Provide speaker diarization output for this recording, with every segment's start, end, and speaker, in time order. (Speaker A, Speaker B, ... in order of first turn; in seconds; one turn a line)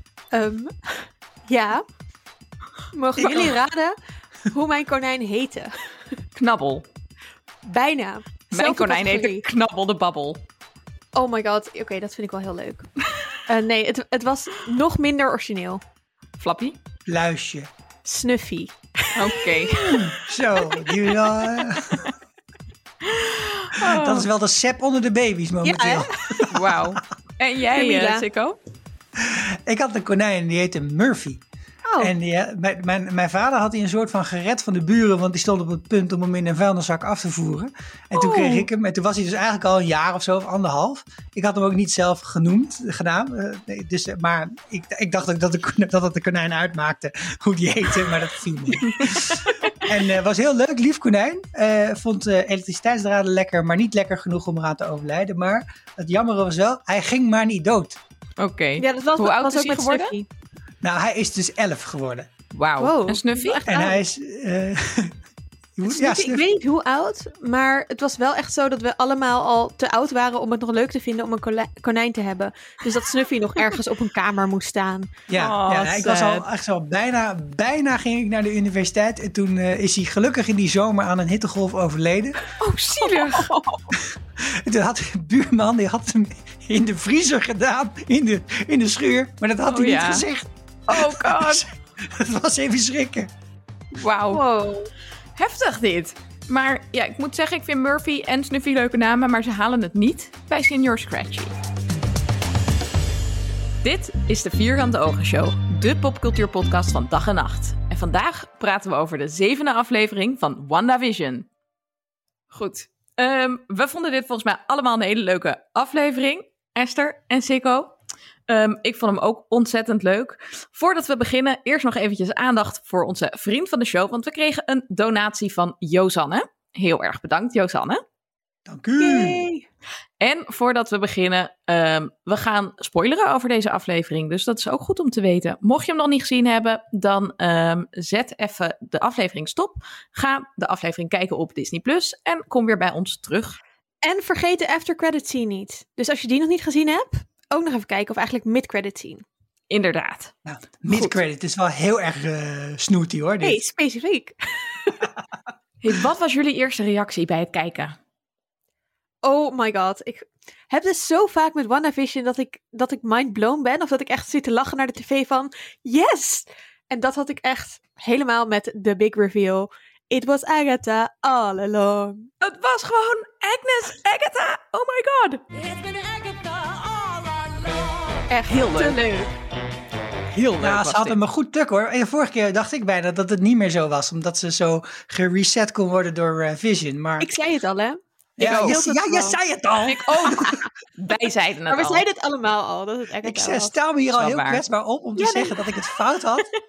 Speaker A: 0.3-1.8
Speaker A: 2.9-3.9
Speaker B: 3.2-3.5
Speaker A: 4.5-5.8
Speaker C: 6.3-6.8
Speaker A: 7.7-9.4
Speaker C: 8.5-10.4
Speaker A: 11.1-15.8
Speaker C: 16.4-16.8
Speaker B: 17.1-17.7
Speaker A: 18.0-20.1
Speaker C: 19.1-20.1
Speaker B: 19.9-22.1
Speaker A: 20.6-21.1
Speaker C: 23.0-24.3
Speaker B: 23.8-26.8
Speaker A: 25.6-26.6
Speaker C: 26.5-28.6
Speaker A: 27.7-28.2
Speaker B: 29.2-31.4
Speaker A: 31.9-32.1
Speaker B: 32.0-58.0
Speaker A: 38.2-38.6
Speaker C: 48.8-49.8
Speaker C: 58.4-60.1
Speaker A: 58.8-60.3
Speaker B: 60.8-62.3
Speaker C: 62.5-63.6
Speaker A: 62.8-64.0
Speaker B: 63.6-65.2
Speaker B: 65.8-66.4
Speaker A: 65.8-75.2
Speaker B: 75.3-82.4
Speaker C: 75.3-76.4
Speaker C: 82.6-83.8
Speaker A: 83.0-83.5
Speaker B: 83.9-93.3
Speaker C: 89.7-90.3
Speaker C: 90.9-91.6
Speaker C: 93.9-94.4
Speaker A: 94.3-94.9
Speaker C: 95.3-101.6
Speaker C: 103.8-111.5
Speaker C: 112.5-117.9
Speaker C: 118.5-128.0
Speaker B: 128.7-129.4
Speaker A: 129.0-129.6
Speaker C: 130.2-143.6
Speaker A: 144.0-149.2
Speaker C: 149.7-150.3
Speaker B: 150.4-153.6
Speaker A: 153.4-155.0
Speaker C: 155.8-157.9
Speaker A: 159.2-172.3
Speaker C: 172.4-175.4
Speaker A: 178.3-179.3
Speaker C: 178.4-179.0
Speaker C: 180.3-181.2
Speaker B: 180.6-187.3
Speaker A: 187.2-189.4
Speaker B: 188.4-190.6
Speaker C: 188.4-188.8
Speaker C: 189.9-192.0
Speaker A: 191.7-193.7
Speaker B: 193.2-196.5
Speaker C: 194.1-194.6
Speaker A: 195.2-195.7